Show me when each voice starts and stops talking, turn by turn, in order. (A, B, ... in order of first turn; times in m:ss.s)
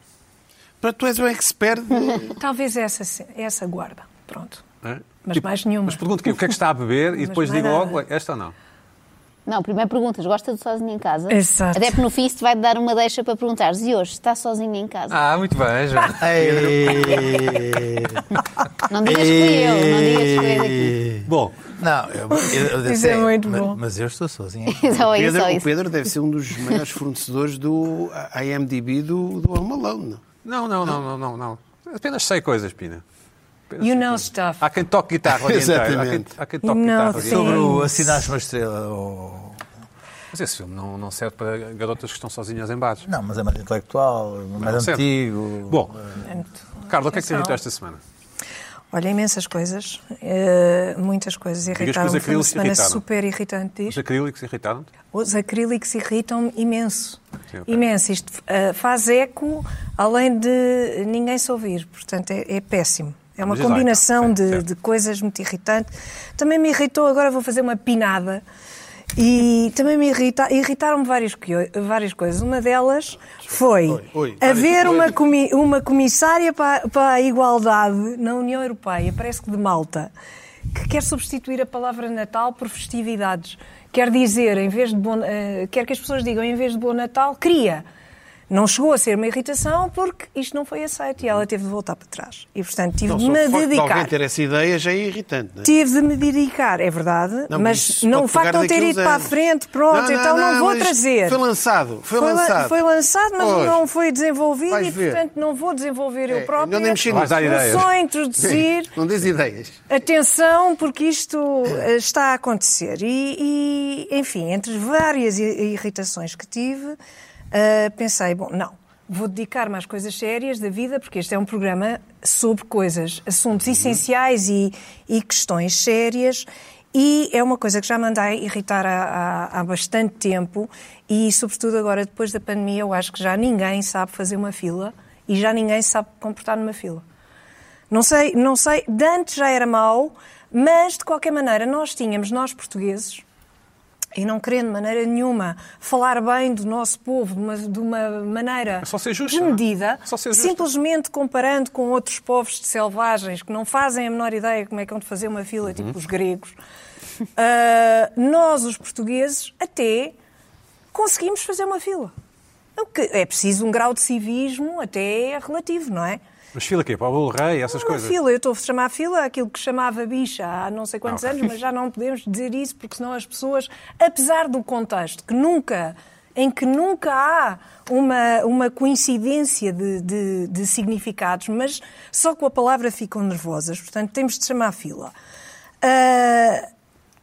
0:00.8-0:02.4 A
0:02.4-0:04.6 B
0:04.8-0:08.6 C
0:05.2-0:06.4 B
0:07.1-0:08.0 B
0:09.5-0:15.2 D
0:11.3-0:12.0 B
0:15.1-0:17.6 C
0:16.2-0:18.2 E
0:18.9-0:21.0 D
0:19.0-0:25.0 E
0:21.2-0:21.7 C
0:22.4-0:23.8 B
0:24.7-0:25.7 D
0:25.1-0:30.2 A
0:30.4-0:33.0 C
0:33.7-0:37.7 C
0:33.8-0:34.6 B
0:35.5-0:35.8 E
0:35.6-0:36.4 A
0:36.6-0:38.3 B
0:37.1-0:39.6 E
0:40.3-0:43.1 C
0:43.0-0:46.2 E
0:44.6-0:45.1 C
0:45.7-0:46.0 C
0:46.2-0:47.6 B
0:46.9-0:48.0 C
0:48.9-0:54.0 B
0:51.7-0:53.0 C
0:53.9-0:54.9 C
0:55.1-1:08.4 B
1:03.4-1:04.7 C
1:09.2-1:20.1 B
1:13.9-1:15.0 A
1:20.7-1:27.8 B
1:28.5-1:34.1 B
1:33.1-1:35.7 A
1:35.6-1:41.4 B
1:37.5-1:39.3 A
1:39.9-1:42.8 A
1:42.1-1:48.9 B
1:43.4-1:43.8 A
1:44.7-1:45.2 A
1:46.3-1:47.9 A
1:47.1-1:47.9 C
1:48.4-1:49.8 A
1:49.9-1:57.0 B
1:57.5-2:17.0 B
2:17.9-2:23.2 B
2:24.2-2:36.6 B
2:28.8-2:30.7 C
2:37.4-2:40.2 B
2:40.9-2:42.1 B
2:42.8-2:46.2 B
2:46.5-2:48.2 C
2:47.7-3:05.1 B
3:05.8-3:06.6 B